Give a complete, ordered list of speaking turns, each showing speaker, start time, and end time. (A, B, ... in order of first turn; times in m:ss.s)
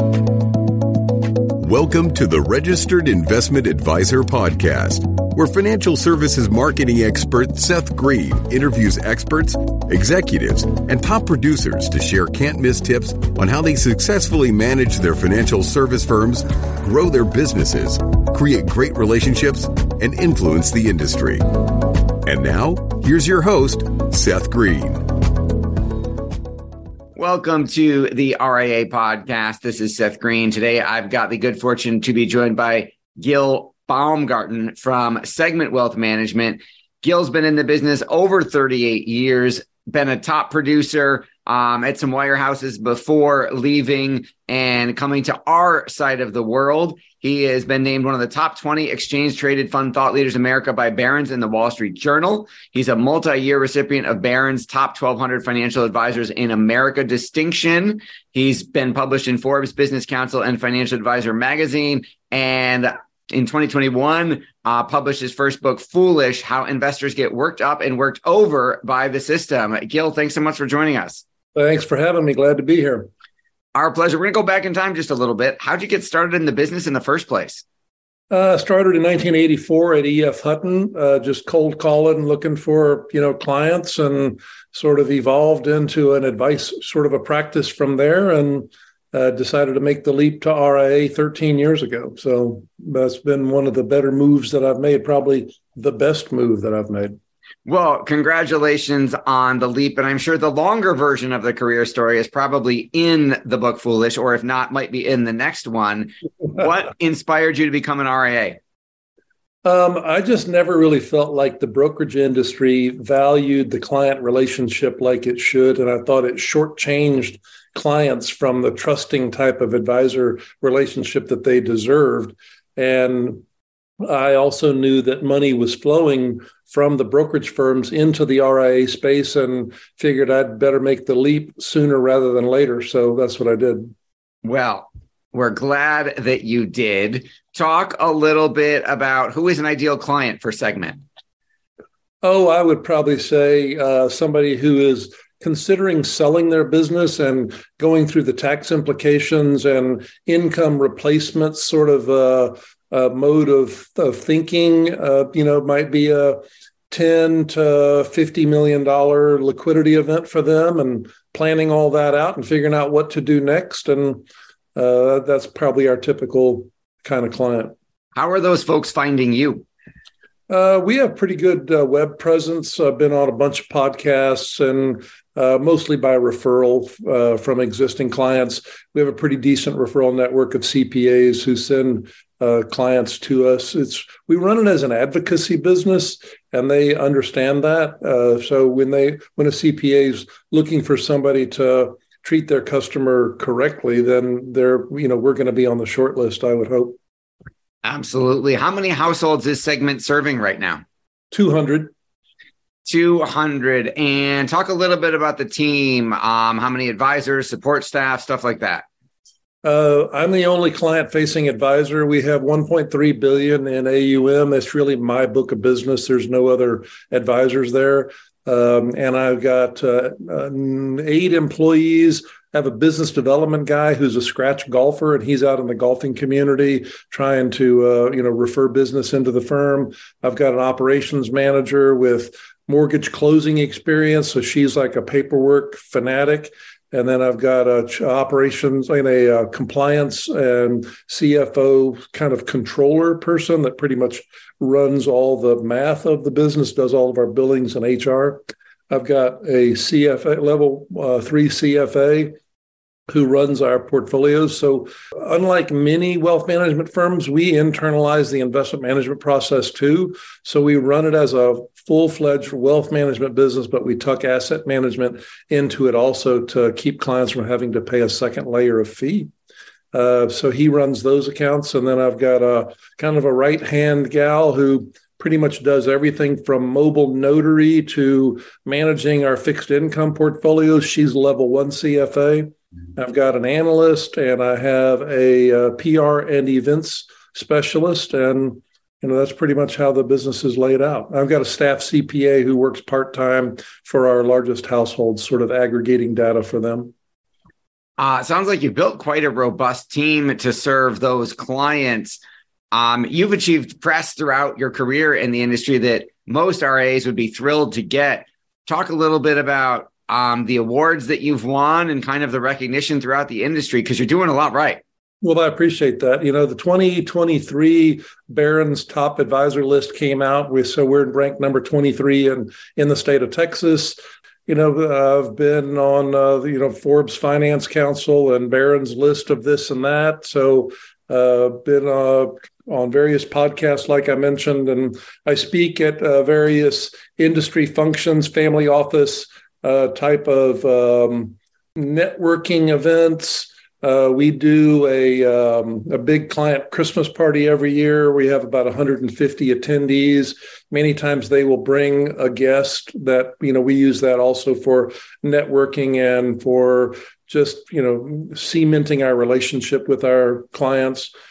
0:01.6-0:25.4 A
0:27.2-1:11.2 B
1:11.5-1:13.1 C
1:13.8-1:17.6 B
1:18.3-1:37.2 C
1:37.7-1:48.6 B
1:49.6-2:03.4 C
2:04.0-2:13.9 C
2:14.4-2:21.0 B
2:22.2-2:47.7 C
2:48.2-2:49.7 B
2:50.5-3:17.0 C
3:17.8-3:20.8 B
3:21.3-3:21.9 C
3:22.9-3:28.8 B
3:29.6-4:12.3 C
4:13.1-4:29.3 C
4:29.9-4:56.9 C
4:58.0-5:02.2 B
5:02.7-5:14.8 B
5:15.2-6:01.1 C